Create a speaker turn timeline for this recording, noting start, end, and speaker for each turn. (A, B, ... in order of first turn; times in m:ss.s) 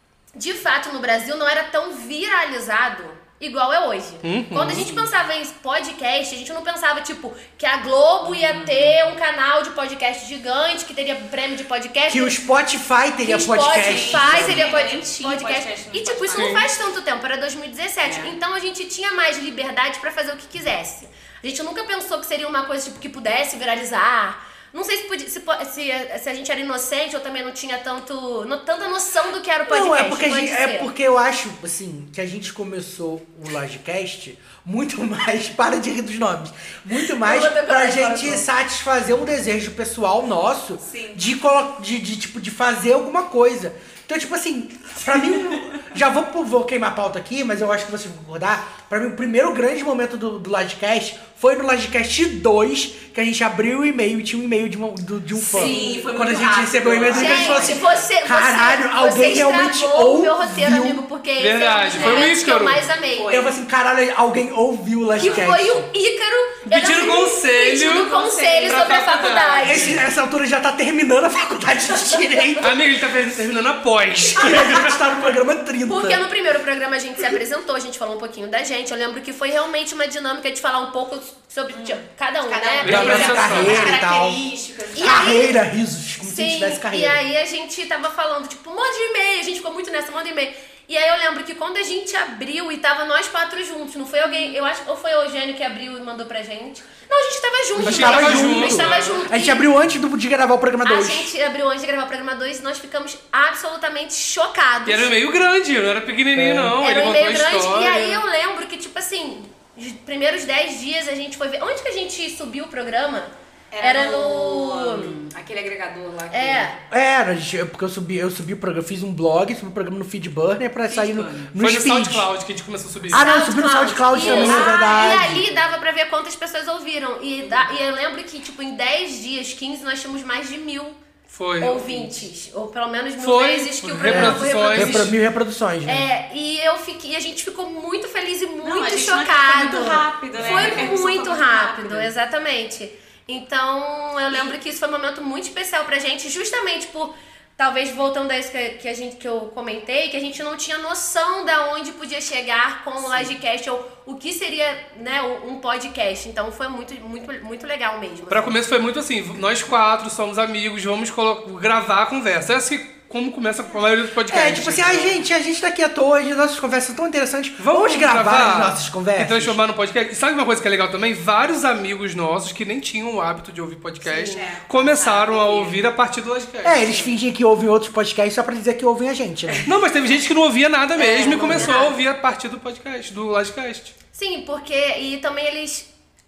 0:00.4-0:12.4 A
0:04.2-0:04.9 B
0:08.2-0:09.0 C
0:12.1-0:14.7 D
0:13.2-0:30.9 A
0:13.6-0:16.6 C
0:16.3-0:16.6 B
0:18.0-0:18.4 C
0:29.7-1:01.0 D
0:37.2-0:38.5 A
0:40.8-0:41.2 C
0:55.4-0:58.0 C
0:55.5-0:56.1 A
0:57.1-1:03.5 A
1:01.4-1:02.8 B
1:01.9-1:02.3 C
1:03.1-1:03.6 C
1:03.3-1:05.9 D
1:05.2-1:10.0 A
1:06.7-1:08.1 B
1:07.7-1:09.0 C
1:08.7-1:10.0 B
1:09.6-1:12.8 D
1:12.6-1:15.0 B
1:14.3-1:16.2 D
1:15.9-1:23.9 A
1:21.7-1:25.3 C
1:22.8-1:23.9 B
1:22.8-1:24.4 D
1:24.9-1:25.6 A
1:25.0-1:27.2 D
1:26.2-1:39.7 A
1:37.7-1:41.3 D
1:37.8-1:39.2 B
1:40.8-1:45.1 A
1:44.9-1:48.2 B
1:46.4-1:46.8 D
1:46.8-1:55.1 A
1:53.7-1:56.7 C
1:56.3-1:56.8 A
1:56.9-2:02.3 D
2:00.9-2:01.5 C
2:01.6-2:03.2 B
2:03.1-2:05.5 D
2:03.1-2:11.0 A
2:04.2-2:05.2 C
2:04.3-2:04.6 B
2:07.4-2:07.7 C
2:11.3-2:11.8 B
2:11.6-2:15.1 A
2:11.8-2:12.1 C
2:13.2-2:15.2 B
2:14.1-2:16.1 D
2:15.9-2:38.6 A
2:18.6-2:22.1 C
2:20.4-2:20.9 B
2:24.3-2:24.6 C
2:33.0-2:33.3 C
2:38.3-2:45.2 B
2:44.3-2:49.6 D
2:47.6-2:57.0 B
2:54.0-2:54.4 A
2:54.3-2:55.8 C
2:56.6-2:59.7 D
2:56.9-2:57.1 C
2:59.6-3:03.9 B
3:01.0-3:02.0 A
3:01.0-3:01.9 C
3:04.1-3:05.9 A